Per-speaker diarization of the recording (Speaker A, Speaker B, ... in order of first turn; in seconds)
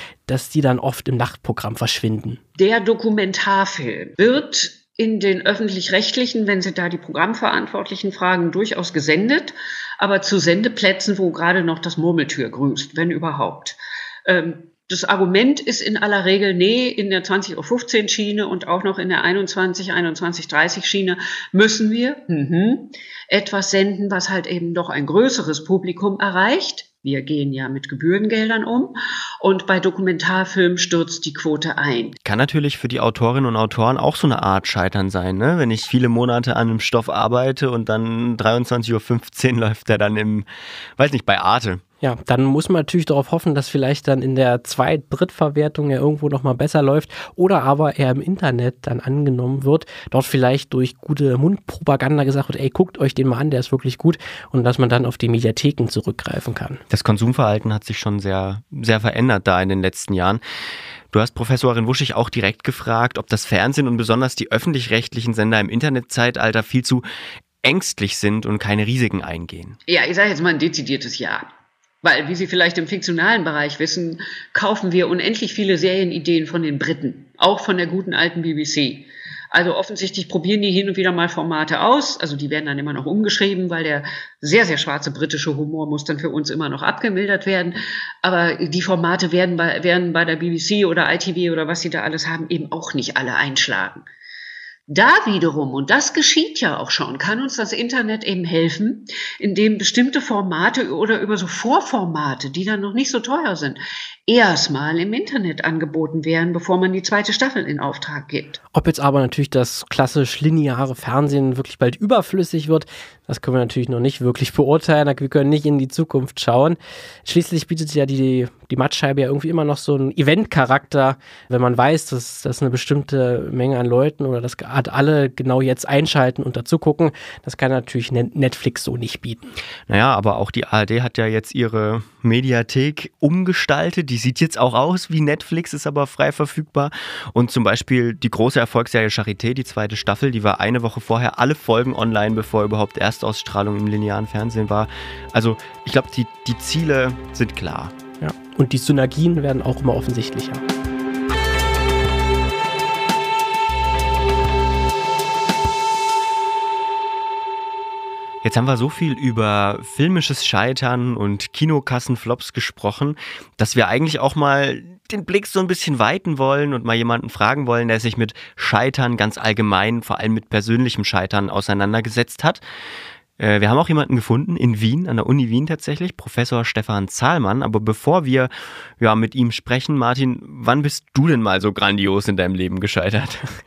Speaker A: 0.3-2.4, 42.0-56.8, 108.7-129.5, 148.2-150.6
Speaker B: 2.5-32.1, 69.9-71.4, 72.0-94.0, 94.9-108.6
Speaker C: 32.2-40.5, 41.0-41.8, 56.9-60.4, 61.1-67.0, 67.6-69.8, 129.9-147.9, 158.4-172.6, 173.4-183.5